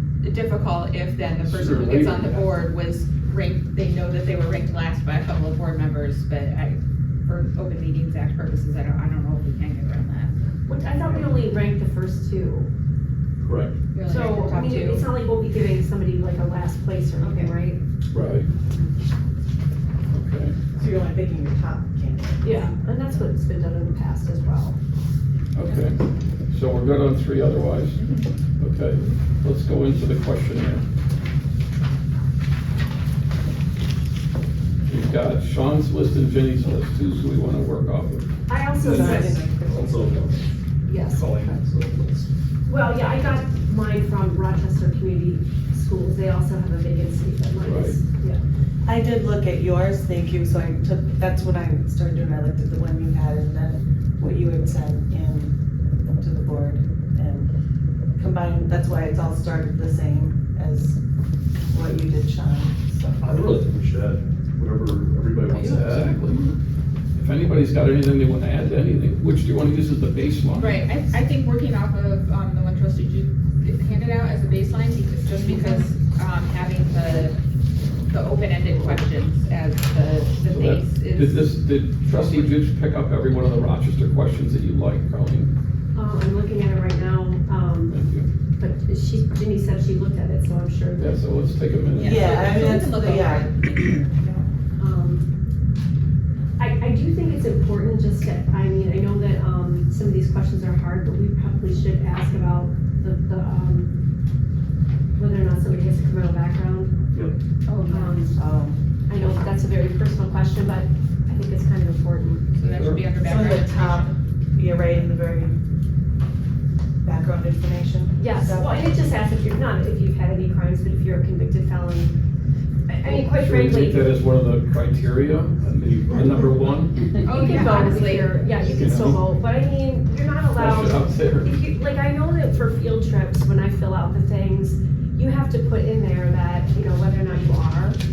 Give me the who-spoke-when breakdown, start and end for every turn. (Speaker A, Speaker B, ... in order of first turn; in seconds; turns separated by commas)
Speaker A: 0.2-10.3, Speaker B: 1.4-2.6, Speaker C: 10.7-12.7, Speaker D: 13.4-13.8, Speaker A: 13.9-15.1, Speaker C: 14.0-17.8, Speaker A: 17.2-17.6, Speaker B: 18.1-18.5, Speaker B: 20.1-20.6, Speaker E: 20.8-23.2, Speaker C: 22.4-24.8, Speaker B: 25.5-26.0, Speaker B: 26.5-28.0, Speaker A: 28.0-28.3, Speaker B: 28.6-30.8, Speaker B: 34.9-38.3, Speaker C: 38.5-39.5, Speaker E: 38.8-40.4, Speaker D: 39.0-40.3, Speaker C: 40.9-41.3, Speaker D: 41.1-42.3, Speaker C: 42.7-48.4, Speaker B: 47.6-48.0, Speaker E: 48.9-57.5, Speaker E: 58.2-61.0, Speaker E: 61.7-63.3, Speaker D: 63.2-66.4, Speaker B: 65.5-66.5, Speaker B: 67.2-70.8, Speaker A: 70.6-77.4, Speaker C: 75.4-75.8, Speaker A: 78.1-81.5, Speaker B: 80.5-85.5, Speaker A: 82.1-82.6, Speaker C: 85.9-88.0, Speaker B: 87.9-88.3, Speaker C: 88.6-91.2, Speaker B: 91.0-92.8, Speaker A: 91.9-94.5, Speaker E: 92.0-93.5, Speaker C: 94.8-95.2, Speaker C: 96.6-103.9, Speaker C: 105.2-107.0, Speaker A: 107.7-108.3, Speaker C: 107.9-108.4, Speaker E: 108.3-108.8, Speaker C: 109.1-112.5, Speaker A: 112.6-114.1, Speaker B: 112.6-113.0, Speaker E: 113.2-115.5, Speaker E: 117.0-118.8, Speaker C: 118.2-122.2, Speaker C: 122.9-124.1, Speaker B: 123.0-127.5, Speaker A: 127.2-128.4, Speaker C: 127.3-138.0, Speaker D: 128.8-129.2, Speaker B: 128.8-129.2, Speaker B: 130.6-131.5